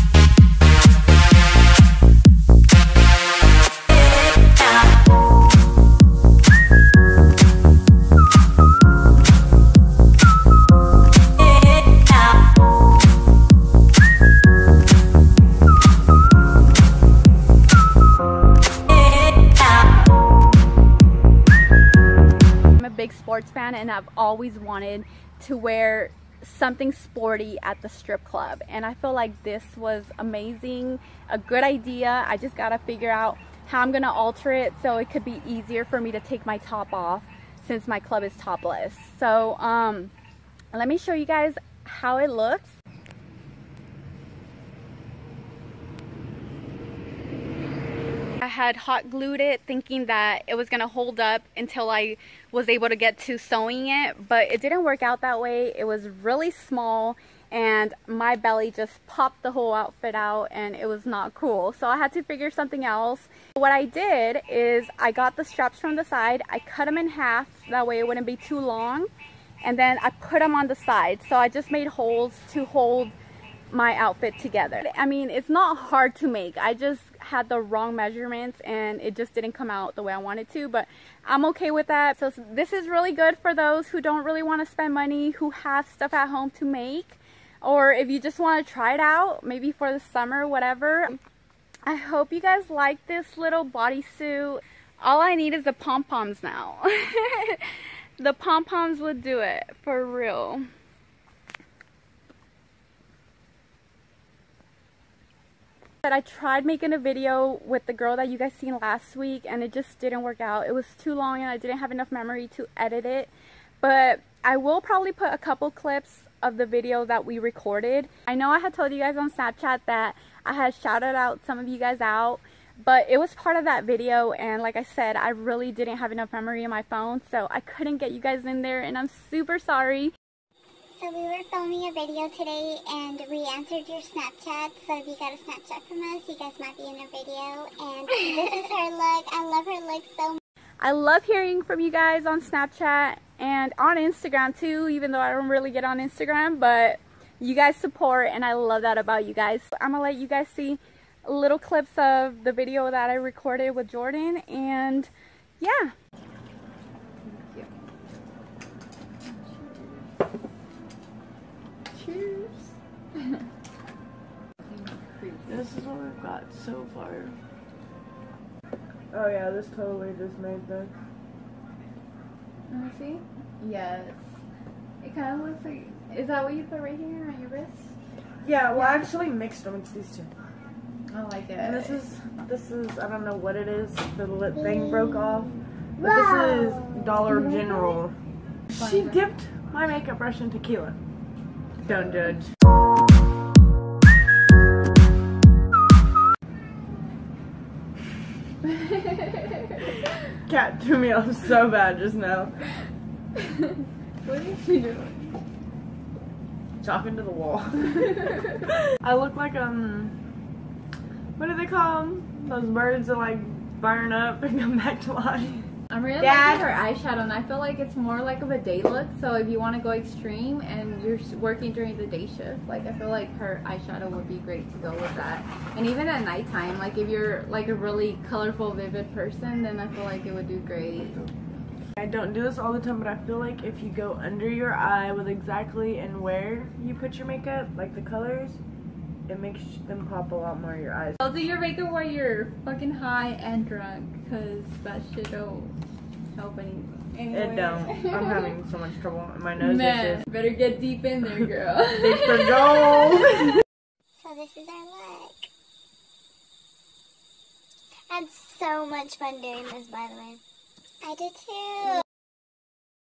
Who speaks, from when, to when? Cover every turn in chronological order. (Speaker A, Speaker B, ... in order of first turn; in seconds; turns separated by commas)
Speaker A: 22.8-40.1, Speaker A: 40.7-42.8, Speaker A: 48.4-69.1, Speaker A: 69.6-73.2, Speaker A: 73.7-91.2, Speaker A: 91.8-100.7, Speaker A: 106.0-113.3, Speaker A: 113.8-130.1, Speaker B: 131.0-140.4, Speaker A: 140.8-155.9, Speaker A: 157.2-157.7, Speaker A: 159.2-160.1, Speaker A: 161.9-163.4, Speaker A: 164.7-165.7, Speaker C: 165.5-167.4, Speaker C: 169.1-170.9, Speaker A: 172.7-174.4, Speaker A: 175.0-177.9, Speaker C: 178.4-180.3, Speaker A: 181.1-182.0, Speaker C: 181.6-188.1, Speaker B: 184.6-187.9, Speaker C: 188.7-191.0, Speaker A: 188.7-189.2, Speaker C: 191.8-192.5, Speaker A: 198.6-200.0, Speaker C: 200.4-202.5, Speaker A: 203.4-205.4, Speaker C: 206.8-208.1, Speaker A: 207.8-208.7, Speaker C: 208.8-210.2, Speaker C: 211.4-215.7, Speaker A: 215.9-231.2, Speaker C: 216.2-216.7, Speaker C: 231.9-238.6, Speaker C: 239.3-241.2, Speaker A: 241.2-245.7, Speaker A: 246.3-248.6, Speaker C: 247.3-250.2, Speaker A: 249.6-253.5, Speaker C: 252.0-253.6, Speaker B: 254.2-255.5, Speaker B: 258.1-260.4, Speaker B: 261.0-262.0